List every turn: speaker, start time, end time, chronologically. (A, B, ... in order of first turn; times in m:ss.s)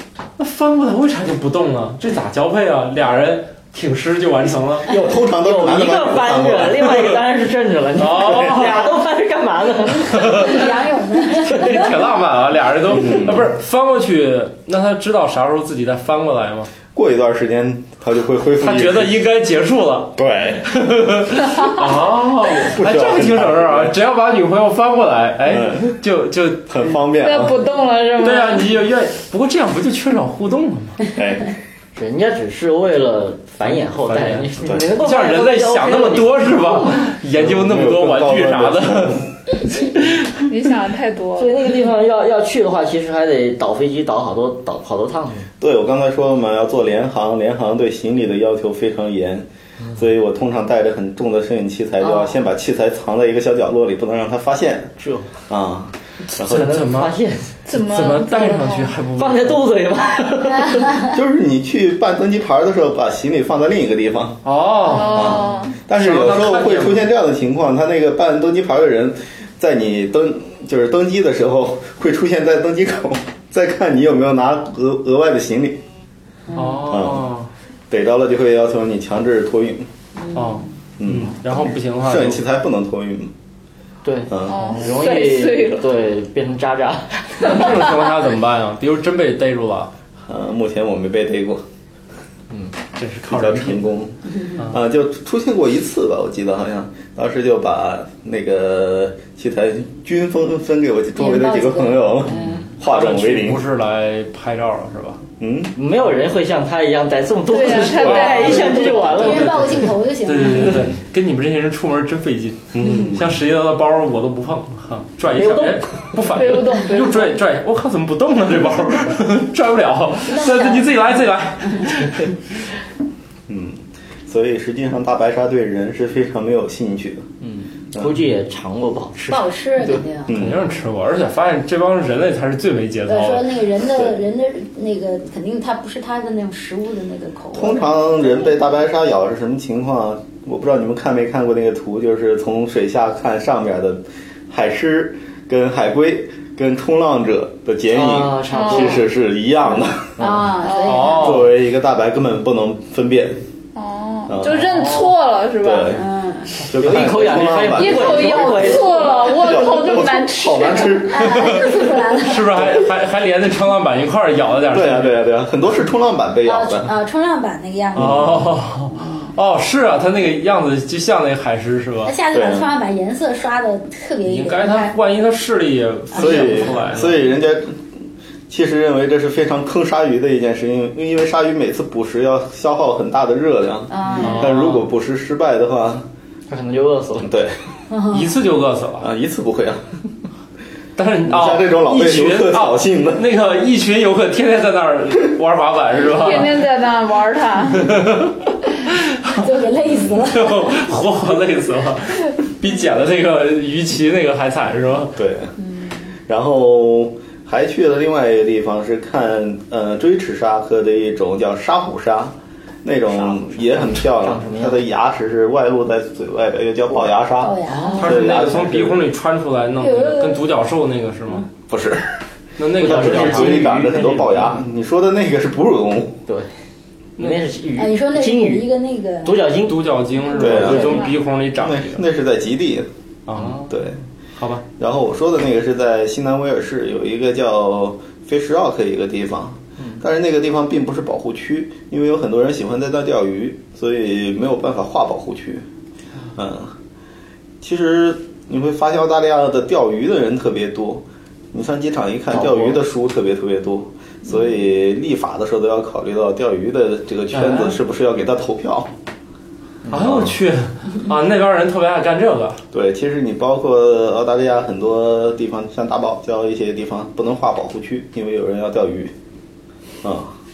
0:00.4-0:04.9 A
0:04.9-0:06.9 B
0:04.9-0:10.6 C
0:08.0-0:09.0 A
0:10.1-0:11.9 D
0:10.1-0:10.6 A
0:11.4-0:12.0 C
0:11.6-0:16.7 A
0:12.9-0:13.5 B
0:16.9-0:19.2 B
0:18.6-0:26.8 A
0:20.2-0:20.7 B
0:22.6-0:24.0 B
0:25.4-0:26.0 B
0:26.7-0:27.6 B
0:27.2-0:28.7 E
0:28.2-0:31.0 A
0:31.1-0:31.6 B
0:32.0-0:36.8 C
0:34.0-0:39.3 A
0:37.3-0:39.3 B
0:40.5-0:41.5 E
0:41.4-0:45.5 C
0:45.6-0:54.9 B
0:52.0-0:52.3 C
0:55.0-0:55.3 C
0:55.5-0:56.8 B
0:56.4-0:57.2 A
0:56.4-0:57.6 C
0:57.7-0:58.9 E
0:57.7-0:59.6 A
0:59.2-1:01.0 C
1:01.0-1:04.4 B
1:04.4-1:07.1 A
1:04.8-1:05.8 E
1:05.1-1:15.8 B
1:16.5-1:16.9 D
1:16.5-1:17.5 A
1:16.9-1:17.3 B
1:17.9-1:19.9 B
1:20.2-1:20.6 D
1:20.3-1:22.4 A
1:21.0-1:21.4 B
1:22.0-1:23.3 B
1:24.0-1:27.9 C
1:24.3-1:24.6 B
1:24.5-1:25.9 E
1:27.4-1:29.9 A
1:30.3-1:31.6 B
1:33.0-1:33.9 A
1:33.3-1:43.6 B
1:41.2-1:42.6 D
1:42.3-1:42.7 C
1:42.8-1:45.2 A
1:45.4-1:45.7 B
1:45.8-1:49.9 C
1:47.5-1:49.0 E
1:47.9-2:02.4 A
1:48.5-1:50.9 D
1:52.7-1:53.4 B
1:55.3-1:56.1 C
1:56.3-1:57.3 E
2:00.3-2:01.0 D
2:03.5-2:07.2 B
2:07.4-2:09.5 C
2:09.3-2:10.3 D
2:10.3-2:10.7 B
2:10.3-2:13.6 A
2:13.1-2:18.7 D
2:13.9-2:14.2 B
2:17.5-2:30.2 B
2:27.9-2:29.1 C
2:28.5-2:29.0 E
2:30.2-2:30.5 C
2:30.2-2:31.4 D
2:30.6-2:31.1 E
2:30.8-2:31.5 A
2:31.1-2:33.4 B
2:33.8-2:35.9 E
2:34.3-2:34.8 B
2:35.6-2:41.8 B
2:35.9-2:36.6 D
2:36.7-2:39.1 C
2:37.7-2:41.1 E
2:38.8-2:39.8 D
2:41.0-2:42.7 D
2:41.3-2:45.2 A
2:44.7-2:46.9 B
2:46.4-2:49.3 D
2:48.0-2:48.5 B
2:48.0-2:52.1 A
2:52.0-2:55.0 D
2:52.3-2:52.7 B
2:54.2-2:57.2 A
2:56.1-2:56.8 D
2:56.2-2:57.8 B
2:58.5-3:06.1 B
3:03.9-3:04.5 D
3:04.2-3:04.8 A
3:06.5-3:07.3 C
3:07.2-3:07.6 B
3:07.9-3:08.3 D
3:08.0-3:09.1 A
3:09.0-3:09.8 B
3:11.0-3:16.6 A
3:11.2-3:13.3 B
3:16.0-3:18.0 E
3:17.8-3:25.2 A
3:19.3-3:20.8 D
3:25.2-3:25.6 B
3:25.6-3:26.0 D
3:26.3-3:39.0 B
3:33.1-3:34.8 C
3:37.4-3:38.2 D
3:37.9-3:41.5 A
3:39.8-3:40.5 D
3:41.7-3:42.1 B
3:42.6-3:44.6 A
3:42.7-3:46.2 B
3:42.8-3:44.4 C
3:47.2-3:48.7 C
3:47.8-3:49.5 D
3:49.2-3:49.8 C
3:49.7-3:52.0 A
3:50.4-3:52.9 B
3:50.4-3:51.1 C
3:50.5-3:51.1 E
3:53.3-3:53.7 A
3:53.4-3:53.7 C
3:53.7-3:54.0 B
3:54.4-3:54.6 A
3:54.8-4:05.6 B
4:06.4-4:06.8 B
4:07.6-4:18.9 B
4:12.3-4:12.8 C
4:17.3-4:17.7 C
4:19.9-4:22.6 A
4:19.9-4:20.4 B
4:22.7-4:29.1 B
4:30.0-4:30.3 B